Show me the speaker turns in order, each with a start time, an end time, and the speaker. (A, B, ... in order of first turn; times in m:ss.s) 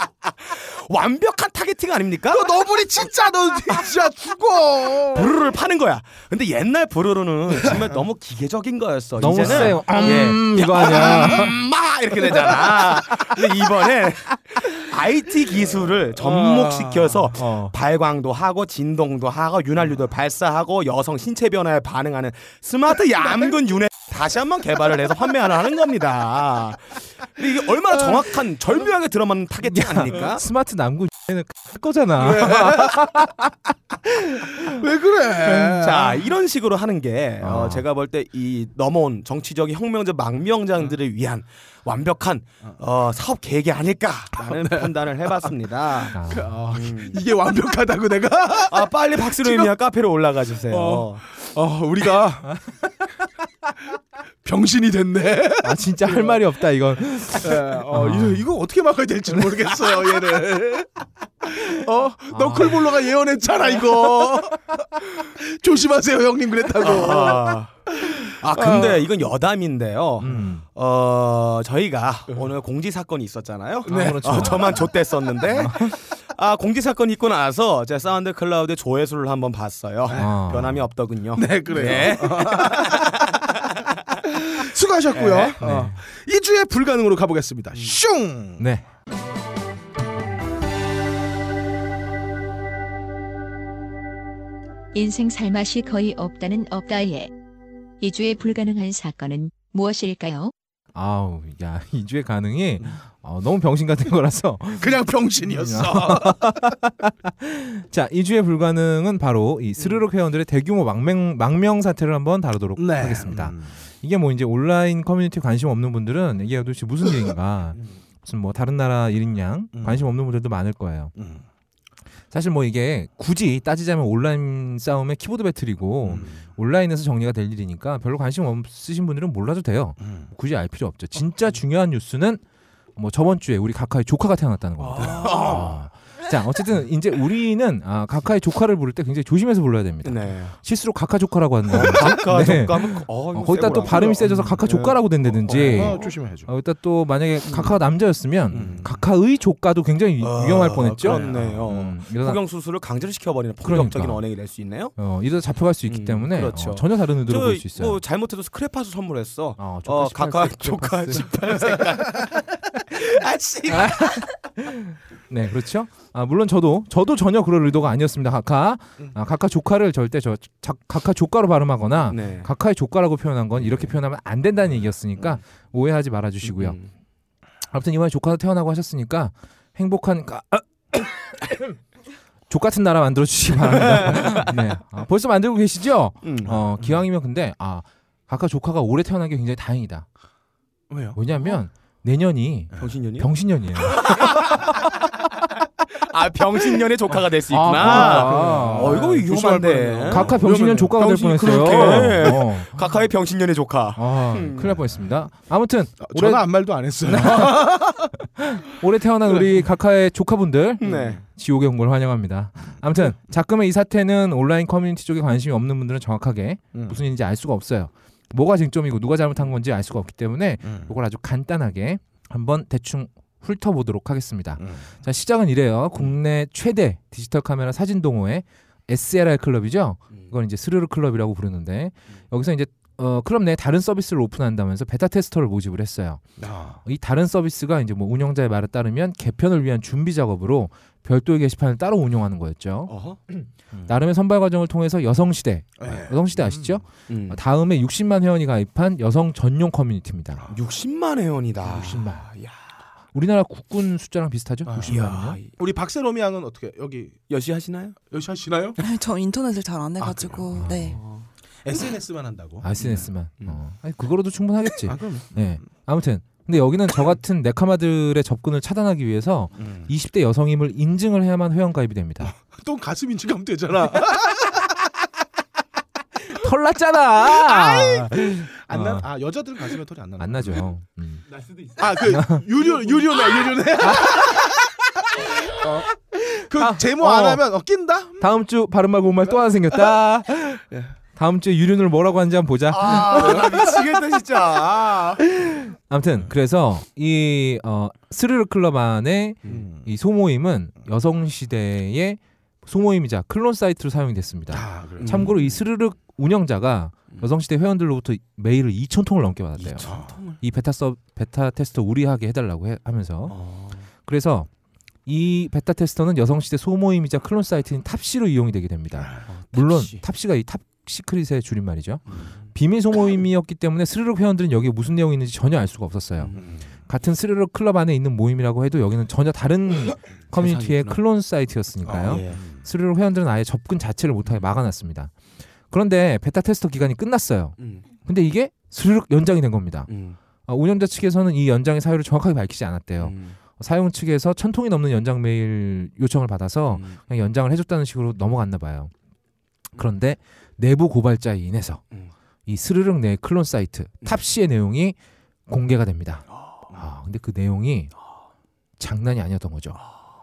0:00.4-0:02.5 A
0:02.3-0:05.3 B
0:05.1-0:30.4 A
0:09.2-0:11.5 C
0:09.4-0:11.5 B
0:16.2-0:17.3 B
0:17.3-0:17.7 C
0:29.6-0:34.8 C
0:32.2-0:33.1 B
0:34.5-0:36.3 B
0:35.5-0:35.8 C
0:35.7-0:47.2 A
0:37.4-0:37.8 C
0:44.4-0:44.9 B
0:46.1-0:46.6 C
0:46.1-0:49.7 B
0:48.7-0:51.2 A
0:50.7-0:52.6 B
0:54.4-0:56.4 B
0:55.6-0:58.5 C
0:57.4-1:00.9 B
1:01.4-1:09.1 B
1:02.3-1:02.9 C
1:06.8-1:24.2 A
1:10.2-1:10.6 C
1:13.8-1:14.9 C
1:13.8-1:14.9 B
1:15.4-1:15.9 C
1:20.1-1:20.3 B
1:20.1-1:20.8 C
1:21.3-1:23.3 B
1:24.4-1:28.6 B
1:25.1-1:25.6 A
1:25.6-1:26.0 C
1:28.6-1:28.8 C
1:34.9-1:37.3 D
1:38.0-1:40.5 D
1:40.9-2:01.1 C
1:44.8-1:46.6 B
1:52.8-1:53.7 B
1:59.7-2:00.1 B
2:01.2-2:01.4 B
2:02.3-2:12.4 C
2:06.0-2:06.4 B
2:13.0-2:32.4 C
2:14.8-2:15.8 A
2:15.0-2:15.7 B
2:20.0-2:20.5 A
2:21.7-2:26.1 A
2:23.7-2:24.5 B
2:25.4-2:26.5 B
2:27.4-2:27.7 A
2:28.5-2:29.0 B
2:30.2-2:34.9 A
2:31.0-2:31.6 B
2:33.6-2:34.2 C
2:35.0-2:38.0 C
2:35.9-2:44.1 A
2:39.6-2:41.3 C
2:43.7-2:56.8 C
2:52.1-2:52.5 A
2:53.6-2:53.9 A
2:56.4-2:56.9 A
2:57.7-3:01.8 C
3:02.5-3:10.0 C
3:03.8-3:04.6 A
3:06.2-3:06.6 A
3:10.9-3:11.2 B
3:11.1-3:14.7 C
3:12.8-3:13.3 A
3:13.9-3:14.4 A
3:16.0-3:20.4 A
3:17.5-3:19.2 C
3:17.8-3:22.3 B
3:20.1-3:22.8 C
3:20.9-3:24.9 A
3:24.0-3:26.4 C
3:26.0-3:28.1 B
3:27.0-3:27.8 C
3:28.4-3:56.2 C
3:29.3-3:29.6 B
3:30.8-3:31.2 A
3:36.7-3:37.0 B
3:40.6-3:40.9 B
3:44.6-3:44.9 B
3:56.4-3:56.8 B
3:56.8-4:10.4 C
4:02.9-4:03.2 A
4:05.8-4:06.8 B
4:07.1-4:07.4 A
4:10.5-4:12.6 A
4:11.7-4:12.2 C
4:13.1-4:15.4 C
4:14.6-4:17.2 B
4:14.9-4:15.5 A
4:17.3-4:18.0 A
4:18.1-4:18.8 B
4:18.8-4:21.0 E
4:20.0-4:20.4 B
4:20.5-4:21.0 C
4:20.9-4:21.2 A
4:21.6-4:22.7 B
4:22.6-4:32.3 C
4:22.8-4:23.6 A
4:24.9-4:25.3 B
4:29.6-4:29.9 B
4:32.2-4:34.7 B
4:36.3-4:39.1 C
4:37.3-4:40.7 B
4:40.2-4:41.2 C
4:41.7-4:48.3 B
4:42.0-4:42.4 C
4:43.8-4:44.5 C
4:46.5-4:47.4 C
4:48.2-4:50.6 C
4:51.2-4:53.5 C
4:52.7-4:55.2 A
4:53.0-4:53.6 B
4:55.4-5:13.4 C
4:59.5-4:59.9 B
5:04.5-5:05.4 B
5:05.0-5:05.4 A
5:09.6-5:10.4 A
5:09.8-5:10.1 B
5:13.3-5:13.9 A
5:14.0-5:14.5 C
5:15.0-5:35.1 C
5:19.0-5:19.2 B
5:19.3-5:20.0 A
5:26.2-5:26.5 A
5:26.4-5:26.6 B
5:30.3-5:31.0 A
5:31.8-5:32.6 B
5:32.0-5:32.4 A
5:35.7-5:39.9 C
5:39.9-5:40.2 A
5:40.5-5:48.9 C
5:43.0-5:43.4 A
5:46.7-5:47.0 A
5:49.8-5:51.8 C
5:52.5-5:55.0 C
5:55.5-5:57.9 C
5:56.4-5:56.6 A
5:58.8-5:59.8 C